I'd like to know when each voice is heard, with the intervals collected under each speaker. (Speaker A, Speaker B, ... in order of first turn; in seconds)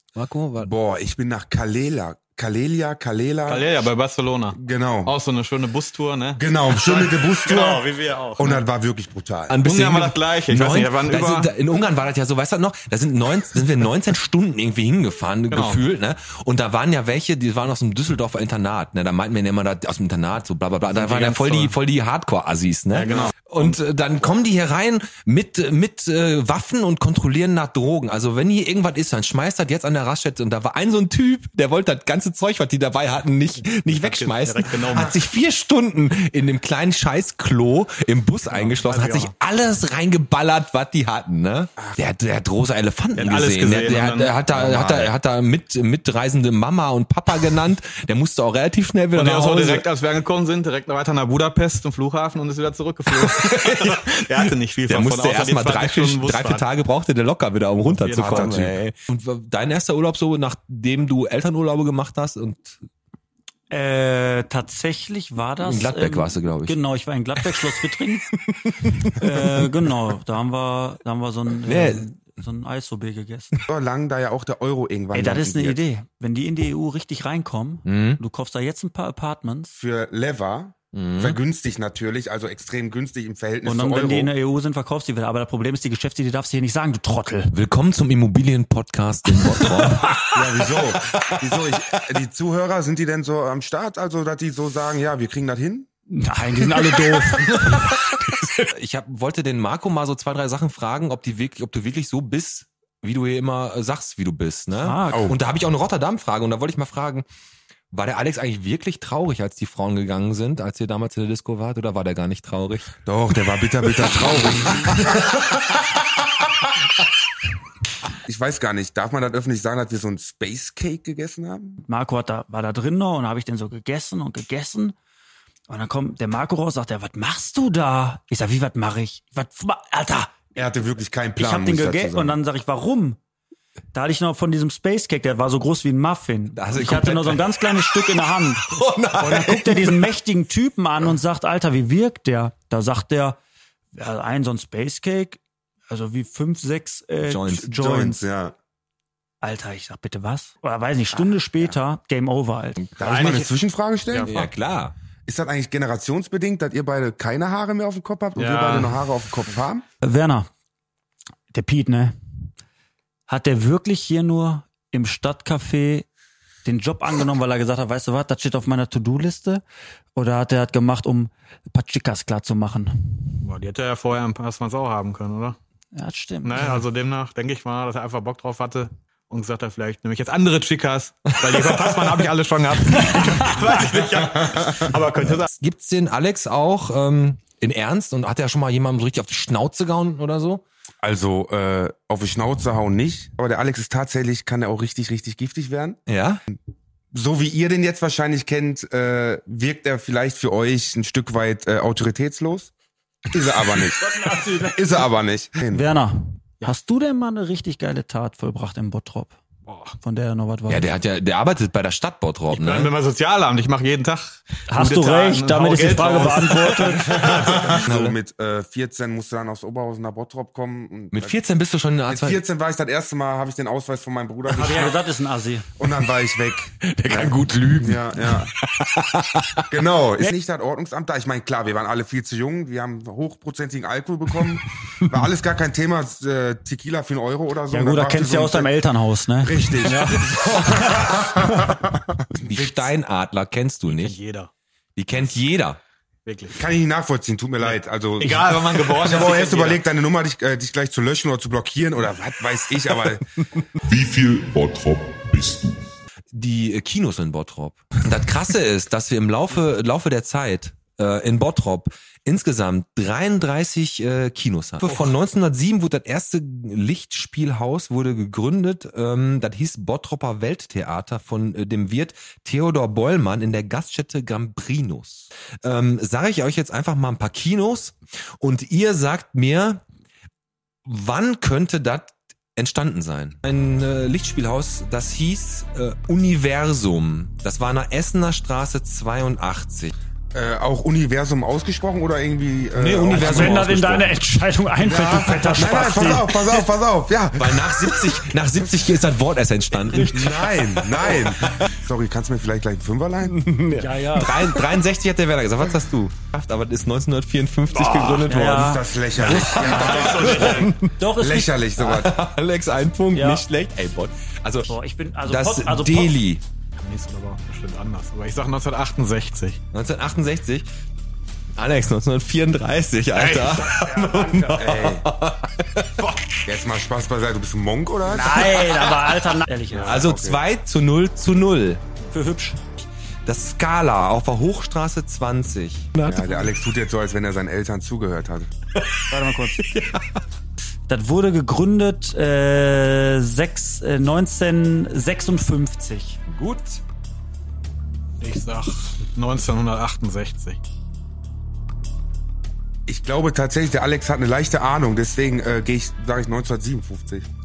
Speaker A: 0.1-0.7, 9.5-49.9, 53.1-62.8, 65.6-66.8, 71.6-72.0, 77.8-78.2, 80.9-81.4, 87.5-91.6, 98.6-107.2, 107.9-112.9, 114.0-115.1, 136.5-140.1, 147.2-147.8, 154.3-154.9, 185.3-190.6, 196.1-196.4, 210.7-212.9, 217.1-218.2, 221.1-222.4, 226.8-229.6, 240.3-241.2, 242.3-244.2, 244.9-245.8, 256.3-279.8, 280.8-289.9, 292.7-294.1, 297.4-301.7, 303.2-310.8, 311.8-314.7, 315.2-316.4, 319.7-320.7, 321.5-325.9, 328.3-329.1, 329.8-331.8, 333.2-336.0, 339.6-340.0, 346.3-346.8
Speaker B: 0.6-3.8, 4.5-5.1, 6.4-9.6, 58.3-58.6, 73.7-75.8, 79.8-84.3, 90.3-95.9, 113.0-115.0, 118.2-121.8, 130.5-132.4, 147.7-148.5, 153.0-154.3, 155.2-159.8, 191.0-196.0, 197.1-202.7, 203.3-204.0, 204.6-205.9, 217.8-221.3, 222.1-225.0, 225.8-228.5, 229.7-238.7, 239.4-240.1, 240.6-241.9, 242.5-242.8, 246.5-253.2, 290.3-293.7, 294.8-298.1, 300.1-303.4, 308.6-310.5, 311.2-312.1, 324.6-325.0, 326.5-328.4, 329.9-330.4, 336.0-338.5, 352.9-357.2
Speaker C: 3.5-8.6, 9.6-11.5, 15.5-15.8, 20.9-21.7, 22.9-23.8, 33.9-35.2, 38.5-39.3, 43.2-45.1, 49.1-56.6, 57.9-58.7, 153.0-153.5, 154.1-154.4, 158.4-159.0, 173.4-175.6, 176.4-185.5, 209.7-210.0, 212.5-217.8, 243.9-244.5, 246.2-246.5, 247.6-249.8, 309.7-310.7, 316.8-319.6, 323.1-323.6, 348.2-350.6
Speaker D: 63.7-68.2, 69.2-73.6, 75.1-79.8, 83.6-87.5, 96.1-97.8, 104.7-105.3, 121.8-124.9, 125.7-130.5, 131.3-133.2, 133.9-143.4, 143.9-148.3, 149.4-152.8, 160.0-160.5, 161.5-162.2, 163.3-166.1, 166.6-169.6, 170.2-172.9, 175.9-176.8, 182.9-183.8, 203.9-204.8, 205.7-209.4, 210.0-210.9, 214.7-217.2, 224.5-225.7, 237.7-240.9, 293.1-296.4, 299.7-300.4, 303.7-304.5, 307.7-311.6, 313.1-313.4, 314.7-316.1, 323.6-324.7, 328.0-330.1, 332.1-332.6, 336.1-336.4, 339.1-339.7, 340.9-346.2
Speaker E: 253.9-255.9